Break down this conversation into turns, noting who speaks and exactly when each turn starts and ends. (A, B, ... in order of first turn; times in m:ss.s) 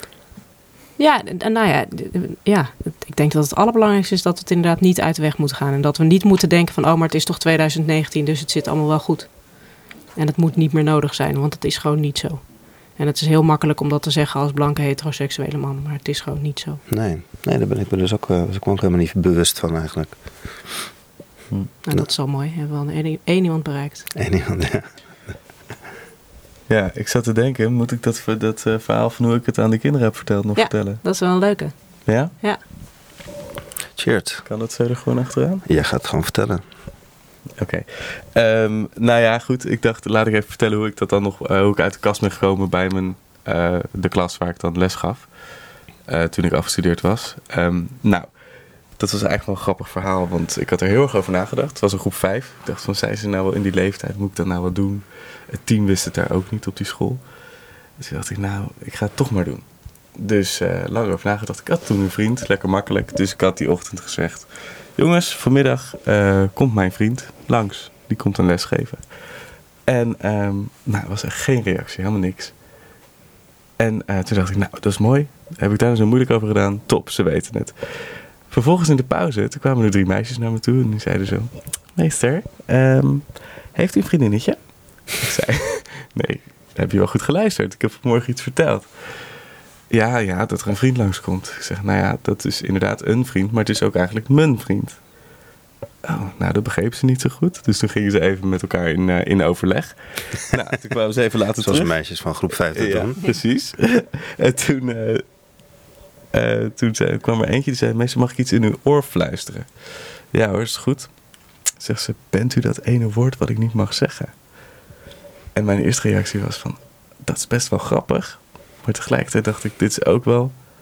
0:01.0-0:16.8 A
0:16.9-0:20.9 B
0:21.8-0:24.1 A
0:24.2-0:25.0 B
0:26.7-0:31.0 C
0:30.6-0:32.6 A
0:32.1-0:32.3 C
0:34.0-0:34.4 B
0:34.5-0:35.6 C
0:35.7-0:36.6 B
0:37.6-0:45.3 C
0:46.1-0:48.3 C
0:49.0-0:57.2 C
0:58.0-0:59.6 C
1:00.2-1:09.0 C
1:09.9-1:12.5 C
1:13.8-1:28.9 C
1:29.9-1:35.0 C
1:36.0-1:45.2 C
1:41.6-1:43.2 B
1:46.3-1:54.3 C
1:55.6-2:00.6 C